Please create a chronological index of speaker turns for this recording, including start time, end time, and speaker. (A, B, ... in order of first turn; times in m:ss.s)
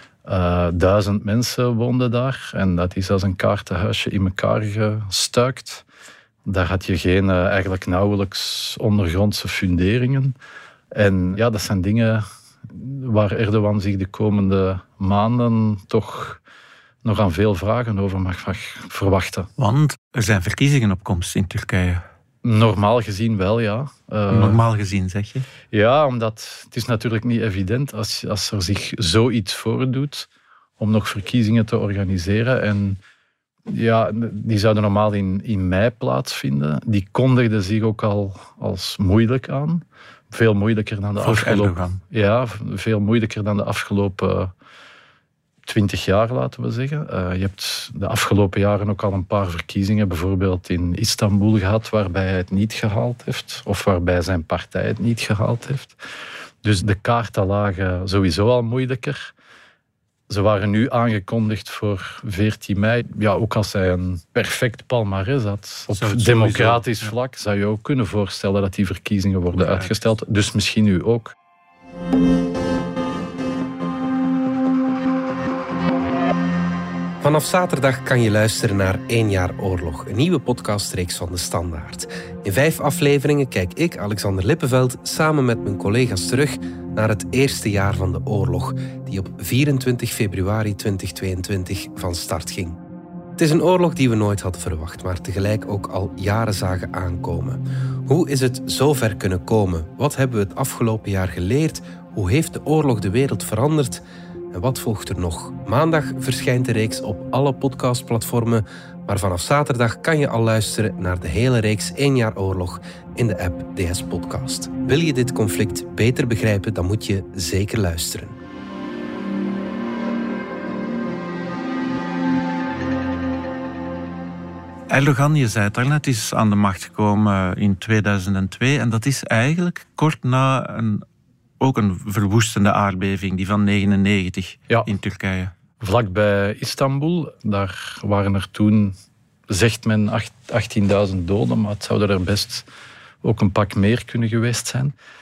0:00.3-0:05.8 A
0:06.5-0:10.4 A
0:10.9-0:16.4 A
0:17.0-0:19.5 A
0:19.6-0:22.0 B
0:22.4-0:24.6 A
0:24.3-0:25.5 B
0:25.7-0:30.3 A
0:30.8-0:33.0 A
0:33.7-0:44.5 A
0:41.2-0:42.0 B
0:45.7-0:56.0 A
0:56.6-0:59.3 A
1:00.3-1:11.3 A
1:05.9-1:07.1 B
1:09.5-1:09.9 B
1:17.2-1:32.8 C
1:33.4-1:58.4 C
2:04.9-2:11.0 B
2:11.6-2:15.5 B
2:15.8-2:19.0 A
2:19.5-2:22.6 A
2:23.2-2:25.0 A